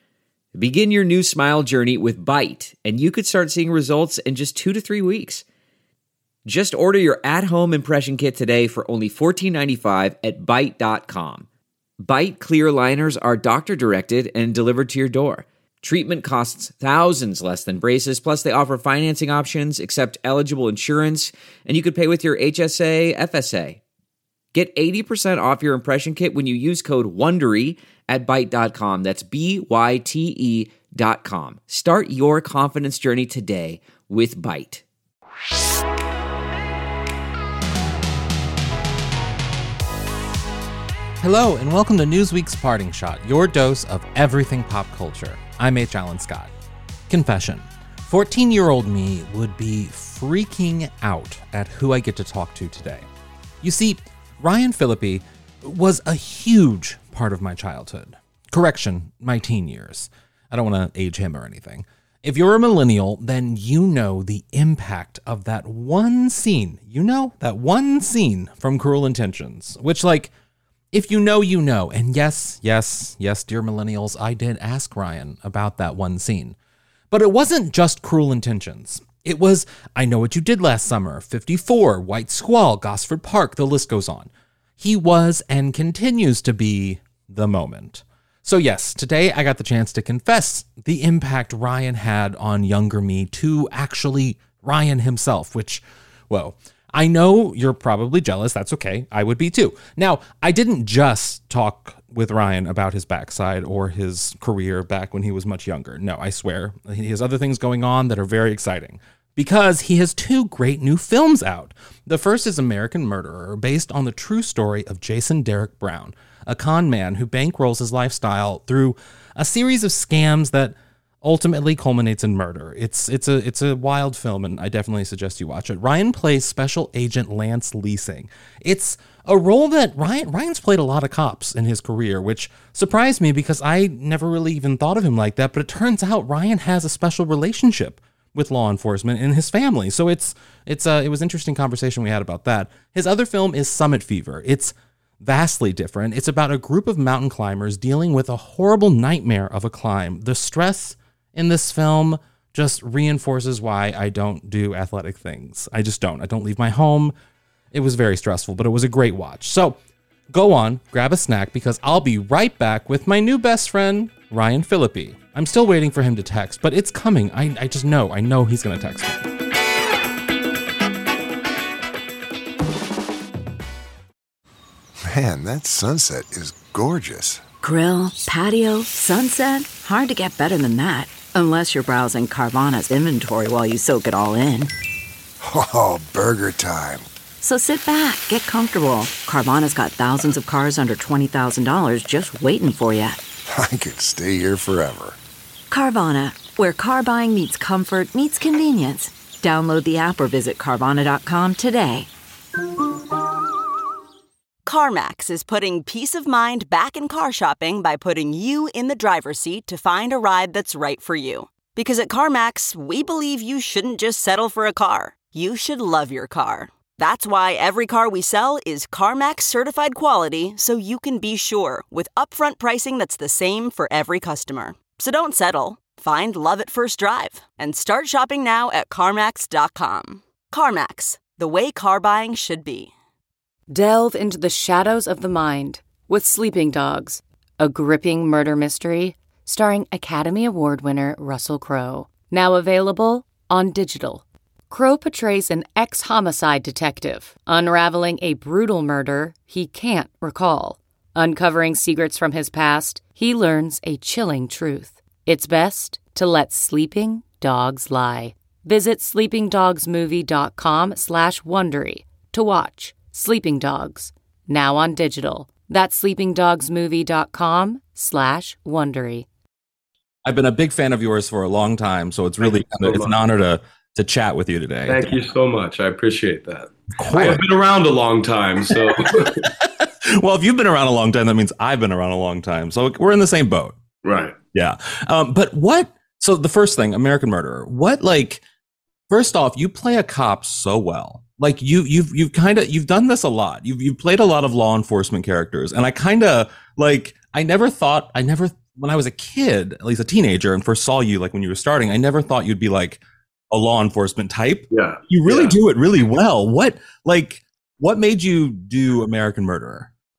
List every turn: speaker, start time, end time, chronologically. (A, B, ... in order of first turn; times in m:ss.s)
0:00.5-0:05.4 A
0:06.4-0:11.4 A
0:12.0-0:23.8 A
0:24.5-0:34.8 A
0:41.2-0:46.5 B
0:47.1-0:53.1 B
0:53.6-1:10.3 B
1:10.9-1:16.6 B
1:17.1-2:37.1 B
2:37.7-2:39.8 B
2:40.3-2:49.3 B
2:55.0-2:57.4 C
2:57.6-3:04.7 D
3:05.4-3:07.0 C
3:07.4-3:13.2 D
3:13.5-3:15.2 C
3:15.7-3:22.1 D
3:24.6-3:52.9 E
3:53.7-4:29.3 F
4:30.2-4:35.1 B
4:32.4-4:33.1 G
4:34.9-4:39.4 G
4:37.0-4:37.4 B
4:38.7-4:43.8 B
4:44.0-4:44.4 G
4:44.5-4:48.4 B
4:49.1-5:09.9 B
5:04.7-5:05.5 G